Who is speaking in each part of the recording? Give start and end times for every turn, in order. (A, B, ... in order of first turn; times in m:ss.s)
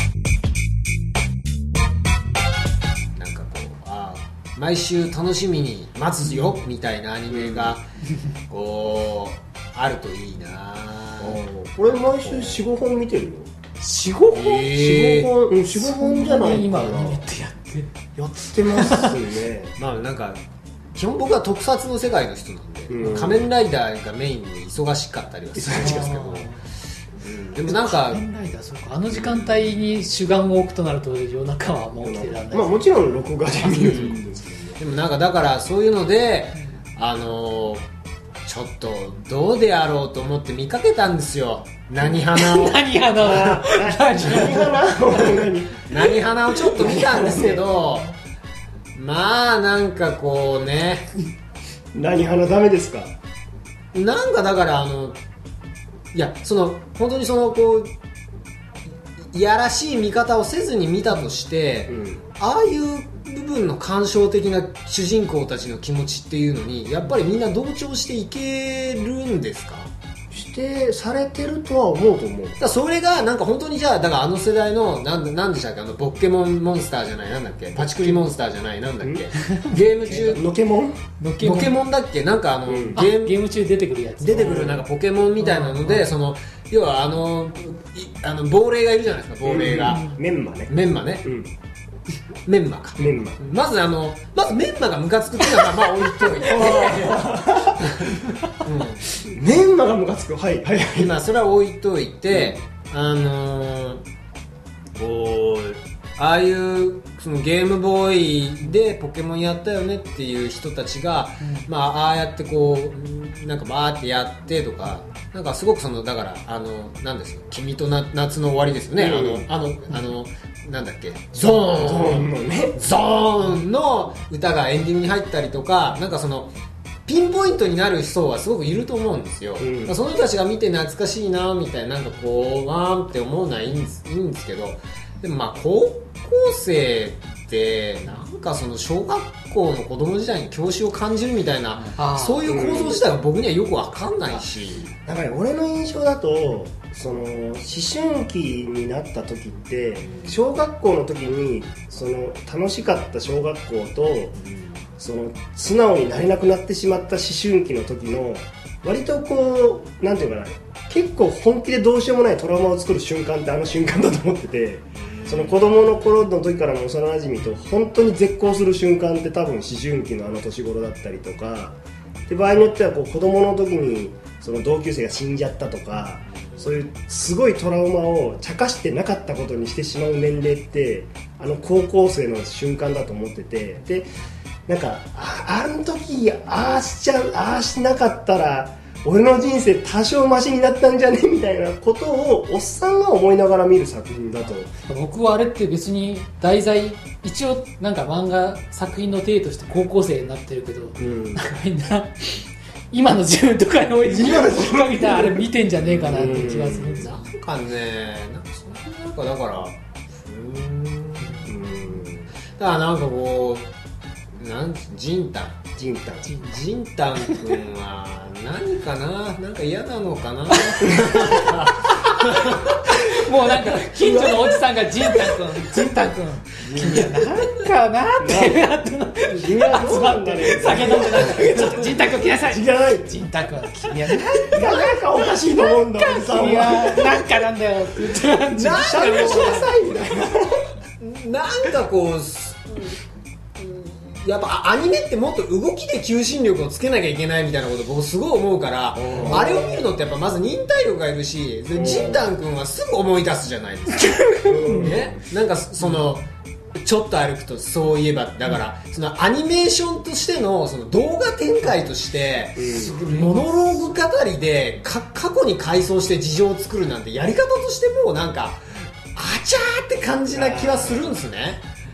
0:03.2-0:07.8 A
0:07.3-0:07.8 B
0:08.5-0:11.4 A
0:11.2-0:13.5 B
0:12.2-0:12.6 A
0:13.8-0:14.7 C
0:14.3-0:15.3 A
0:14.7-0:17.2 B
0:15.7-0:18.0 C
0:18.2-0:19.7 B
0:18.6-0:19.1 C
0:19.8-0:20.4 A
0:20.9-0:26.5 A
0:22.9-0:23.5 B
0:25.6-0:26.0 B
0:25.7-0:26.6 C
0:27.2-0:28.2 A
0:27.6-0:32.8 C
0:29.1-0:29.7 A
0:32.0-0:34.8 B
0:33.6-0:34.1 A
0:34.8-0:37.9 A
0:38.4-0:43.5 A
0:42.2-0:45.4 C
0:43.2-0:46.0 B
0:45.9-0:48.1 A
0:46.6-0:47.6 B
0:48.9-0:51.1 A
0:51.9-0:53.2 B
0:53.9-0:55.2 A
0:56.1-0:57.9 A
0:59.2-1:09.9 A
1:01.9-1:02.2 B
1:10.3-1:12.6 B
1:12.6-1:20.4 A
1:19.0-1:19.3 B
1:19.3-1:20.4 C
1:20.3-1:21.0 B
1:21.2-1:21.8 C
1:21.4-1:23.4 A
1:22.7-1:23.0 B
1:22.9-1:24.6 C
1:24.2-1:30.1 A
1:24.4-1:24.8 B
1:25.4-1:26.1 C
1:29.4-1:30.7 B
1:29.8-1:30.2 C
1:30.7-1:31.3 A
1:31.2-1:31.5 B
1:32.4-1:39.0 A
1:33.0-1:33.4 B
1:36.4-1:38.2 B
1:39.1-1:41.1 B
1:40.9-1:44.0 A
1:42.3-1:42.6 B
1:44.9-2:06.5 A
1:51.4-1:51.7 C
1:59.0-1:59.5 B
2:01.6-2:02.8 B
2:07.1-2:24.9 A
2:09.6-2:10.0 B
2:21.8-2:22.7 C
2:22.4-2:23.0 B
2:25.0-2:34.4 B
2:30.0-2:30.4 A
2:34.4-2:34.8 A
2:35.0-3:04.1 B
2:45.1-2:45.5 A
3:04.7-3:14.7 B
3:14.9-3:27.2 C
3:21.0-3:21.4 B
3:24.1-3:25.4 B
3:25.8-3:33.7 A
3:26.1-3:27.1 B
3:31.4-3:32.3 B
3:34.4-3:35.6 A
3:35.8-3:36.3 B
3:36.2-3:36.6 C
3:36.4-3:44.2 A
3:40.5-3:59.7 C
3:44.0-3:44.4 B
3:46.6-3:47.3 B
3:46.8-3:47.5 A
3:48.2-3:48.6 B
3:49.2-3:52.0 B
3:52.5-3:53.1 B
3:54.2-3:54.9 A
3:54.5-3:57.2 B
3:58.5-4:03.0 A
3:58.7-4:00.6 B
4:03.6-4:14.1 A
4:08.9-4:09.9 B
4:11.7-4:12.3 B
4:14.0-4:14.9 C
4:14.4-4:15.2 B
4:14.7-4:16.2 A
4:16.8-4:31.6 A
4:22.6-4:23.0 B
4:30.3-4:31.2 B